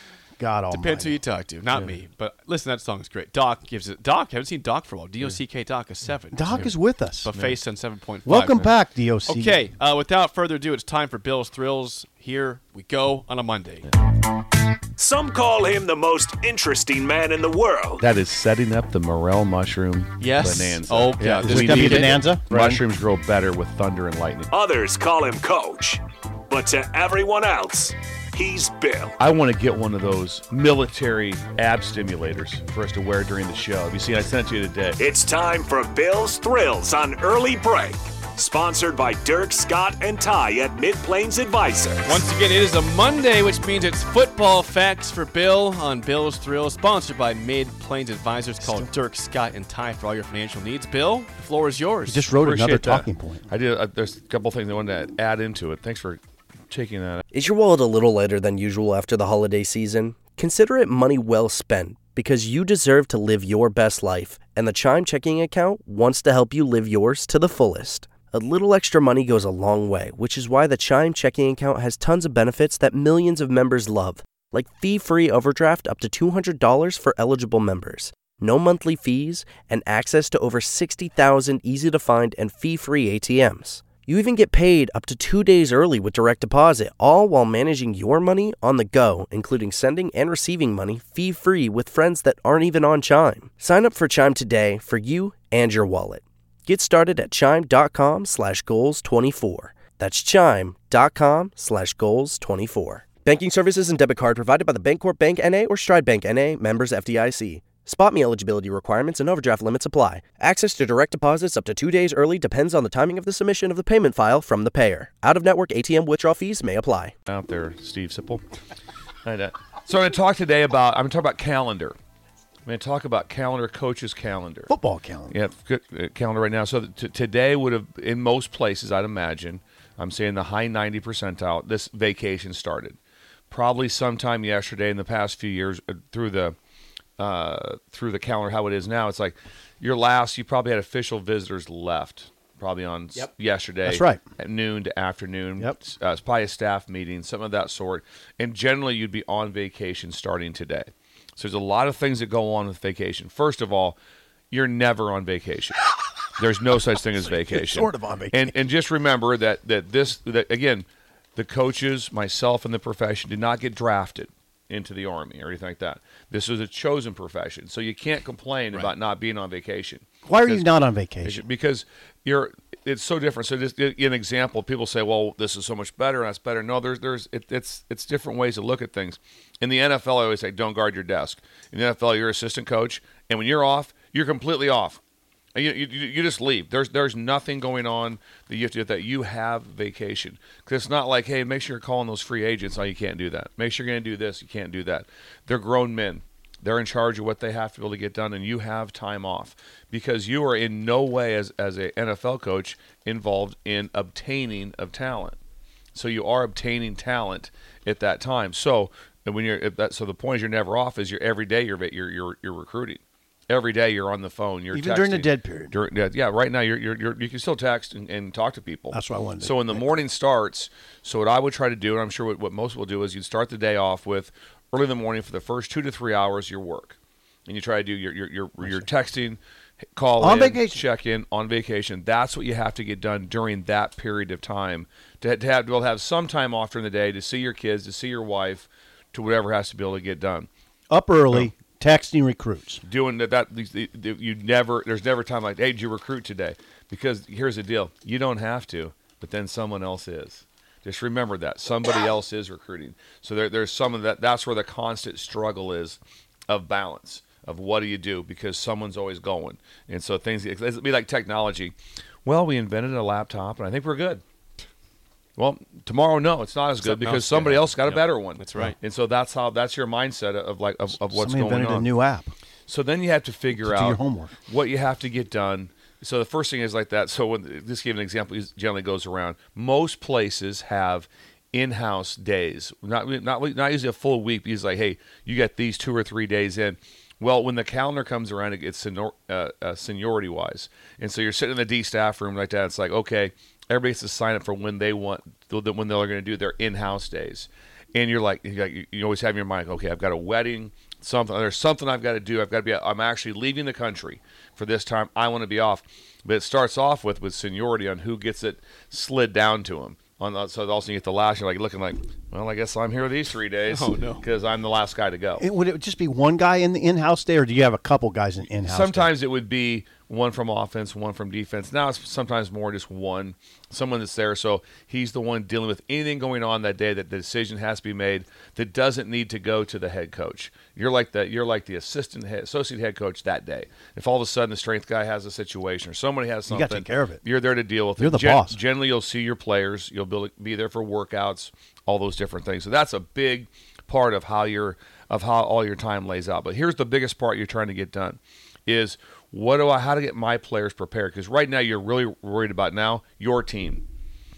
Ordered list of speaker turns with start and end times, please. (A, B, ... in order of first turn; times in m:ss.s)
0:00.4-0:01.2 A
0:00.7-0:06.7 B
0:06.3-0:07.3 A
0:07.2-0:08.7 B
0:07.3-0:07.6 C
0:08.2-0:09.6 A
0:09.2-0:13.9 B
0:15.0-0:18.0 D
0:18.0-0:24.5 C
0:20.2-0:22.2 B
0:21.4-0:22.8 A
0:24.5-0:29.2 D
0:29.2-0:35.0 C
0:35.0-0:42.2 D
0:42.0-0:52.3 B
0:48.6-0:48.9 A
0:52.1-0:53.5 A
0:52.4-0:57.2 C
0:57.3-1:57.1 E
1:57.3-1:58.4 C
1:59.2-2:02.0 C
2:02.7-2:04.7 C
2:04.7-2:05.4 A
2:05.3-2:13.0 C
2:13.5-2:16.6 C
2:17.2-2:34.0 C
2:23.8-2:24.2 A
2:34.5-2:35.8 C
2:36.4-2:50.7 C
2:37.2-2:38.6 A
2:50.2-2:51.5 A
2:51.2-3:05.0 C
3:05.6-3:25.4 C
3:26.0-3:49.4 C
3:34.7-3:35.8 A
3:38.9-3:40.0 A
3:48.6-3:48.9 A
3:50.0-4:00.5 C
3:50.2-3:50.8 A
4:00.9-4:02.8 A
4:02.8-4:21.8 C
4:22.2-4:24.2 C
4:25.4-4:31.9 C
4:26.8-4:28.8 B
4:31.1-4:32.3 A
4:32.7-5:15.4 C
4:33.6-4:34.4 A
5:13.7-5:14.2 B
5:15.4-5:19.1 A
5:18.6-5:53.8 C
5:36.5-5:37.2 A
5:38.0-5:38.6 A